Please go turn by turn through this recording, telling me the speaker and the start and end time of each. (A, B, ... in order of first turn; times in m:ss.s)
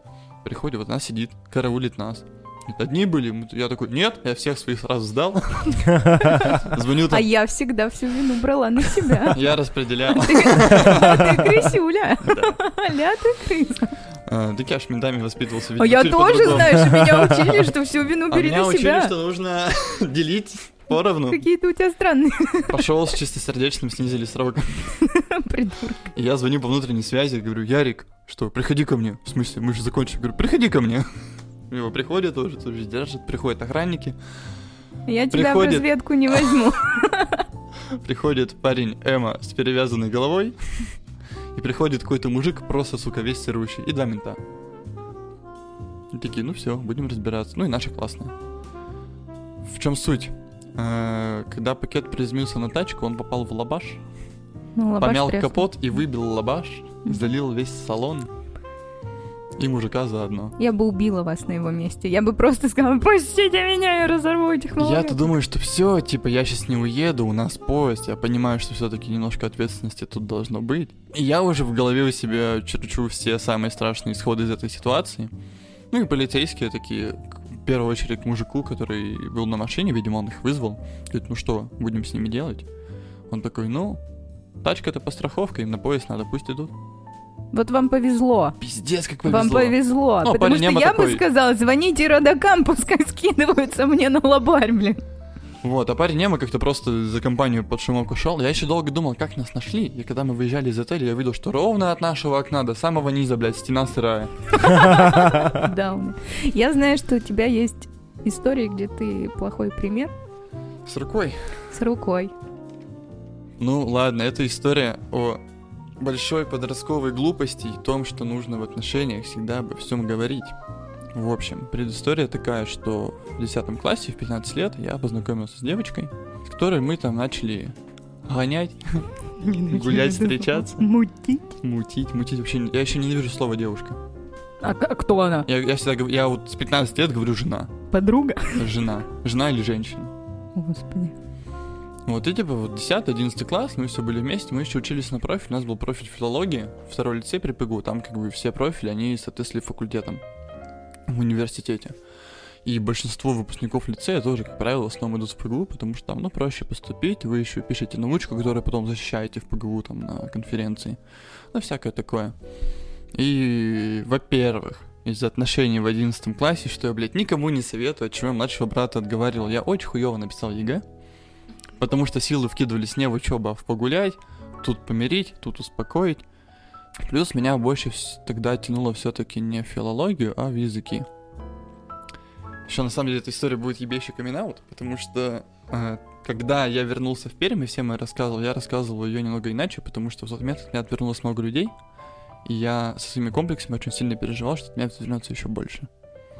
0:00.4-0:07.3 A
0:06.2-0:09.4 B
0:09.2-0:12.6 A
0:10.1-0:14.0 B
0:14.3-0:17.3 A
0:15.8-0:19.1 B
0:18.3-0:21.4 A
0:21.3-0:22.8 B
0:22.7-0:25.0 A
0:25.0-0:26.1 B
0:26.2-0:31.1 A
0:31.7-0:34.2 A
0:35.1-0:37.4 B
0:35.3-0:36.6 A
0:37.9-0:40.9 A
0:41.6-0:44.4 A
0:46.1-0:48.3 A
0:49.6-0:54.0 A
0:54.8-0:55.7 B
0:55.0-0:58.3 A
0:59.6-1:00.6 A
1:00.6-1:05.3 B
1:04.8-1:15.3 A
1:15.9-1:22.7 A
1:23.3-1:24.0 A
1:24.6-1:26.7 A
1:27.5-1:28.6 B
1:28.6-1:31.2 A
1:29.2-1:35.0 B
1:35.6-1:44.7 A
1:44.6-1:50.1 B
1:50.9-1:51.7 A
1:51.7-1:52.3 B
1:53.6-1:55.4 A
1:56.0-2:00.5 A
2:01.1-2:07.8 A
2:08.3-2:09.1 A
2:09.4-2:11.5 B
2:09.7-2:10.9 A
2:11.6-2:14.0 A
2:14.6-2:15.5 B
2:15.5-2:17.8 A
2:17.9-2:18.7 B
2:18.6-2:20.1 A
2:20.6-2:21.1 B
2:22.1-2:30.2 A
2:31.1-2:32.0 A
2:32.6-2:41.0 A
2:41.5-2:42.4 A
2:43.1-2:50.8 A
2:51.8-2:56.2 A
2:57.0-3:01.1 A
3:02.7-3:11.7 A
3:12.4-3:15.9 A